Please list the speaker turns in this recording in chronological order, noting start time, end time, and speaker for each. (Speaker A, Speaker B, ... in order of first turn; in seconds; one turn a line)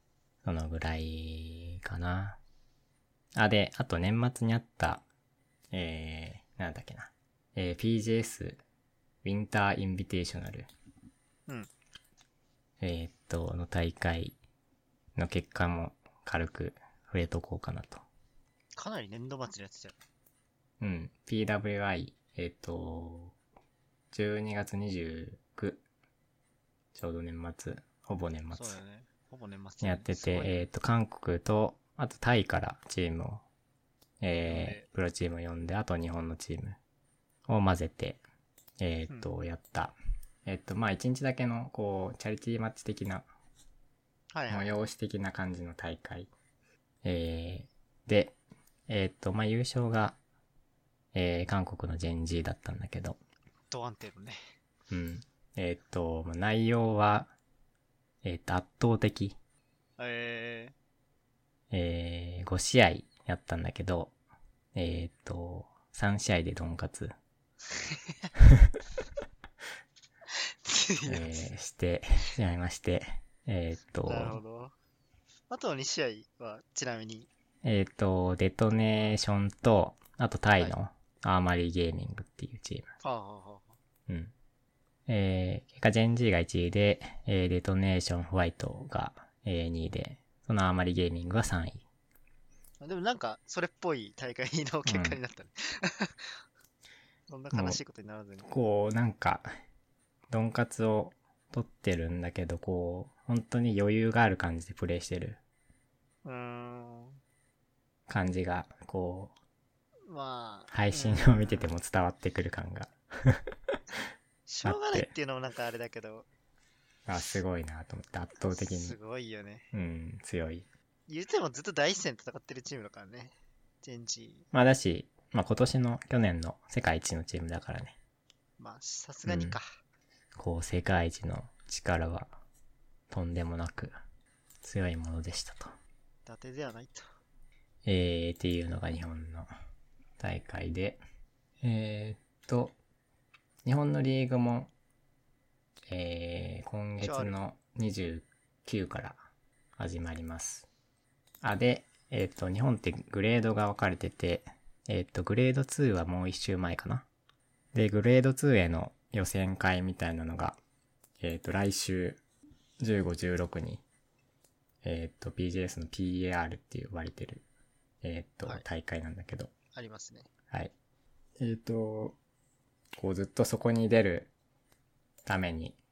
Speaker A: 0.4-2.4
Speaker A: 3.4-5.0
Speaker A: 5.7-8.6
Speaker A: 9.2-10.7
Speaker A: 12.8-14.4
Speaker A: 15.2-18.0
Speaker B: 18.8-20.0
Speaker A: 20.8-23.4
Speaker A: 24.1-25.8
Speaker A: 26.9-28.8
Speaker B: 28.5-30.7
Speaker A: 29.8-33.4
Speaker A: 34.2-36.8
Speaker B: 34.4-34.9
Speaker A: 37.5-38.2
Speaker A: 38.8-43.3
Speaker B: 44.3-44.7
Speaker A: 44.5-46.3
Speaker A: 47.0-48.4
Speaker A: 48.9-50.2
Speaker A: 51.1-53.2
Speaker B: 53.7-54.4
Speaker A: 54.9-57.3
Speaker A: 58.2-59.4
Speaker B: 60.0-60.8
Speaker A: 61.7-64.1
Speaker A: 64.8-67.1
Speaker B: 67.7-68.3
Speaker B: 70.6-71.5
Speaker A: 71.1-74.4
Speaker B: 74.1-74.7
Speaker B: 75.5-77.3
Speaker A: 77.6-82.9
Speaker B: 83.0-83.8
Speaker A: 84.1-84.3
Speaker A: 85.1-91.8
Speaker B: 92.8-96.4
Speaker A: 94.9-95.2
Speaker B: 97.3-98.5
Speaker A: 97.5-97.8
Speaker A: 98.5-99.5
Speaker A: 100.3-105.4
Speaker B: 106.2-107.2
Speaker A: 108.1-109.3
Speaker B: 110.1-111.7
Speaker A: 110.7-113.8
Speaker B: 114.5-116.3
Speaker A: 114.6-115.1
Speaker A: 117.1-119.0
Speaker B: 118.5-119.7
Speaker A: 119.7-120.7
Speaker B: 121.1-124.5
Speaker A: 124.5-128.0
Speaker B: 128.6-129.8
Speaker A: 129.3-129.6
Speaker A: 130.4-132.3
Speaker A: 133.1-133.9
Speaker A: 134.6-135.7
Speaker B: 136.3-137.1
Speaker A: 137.8-139.5
Speaker A: 140.2-141.0
Speaker A: 141.6-142.8
Speaker A: 143.7-144.7
Speaker A: 145.9-149.2
Speaker B: 147.0-147.4
Speaker A: 149.8-150.7
Speaker A: 151.4-157.1
Speaker A: 157.7-160.6
Speaker A: 161.2-162.2
Speaker A: 162.8-163.8
Speaker A: 164.8-167.4
Speaker A: 168.0-169.5
Speaker B: 169.8-170.3
Speaker A: 171.4-172.2
Speaker A: 173.0-174.3
Speaker A: 175.3-175.8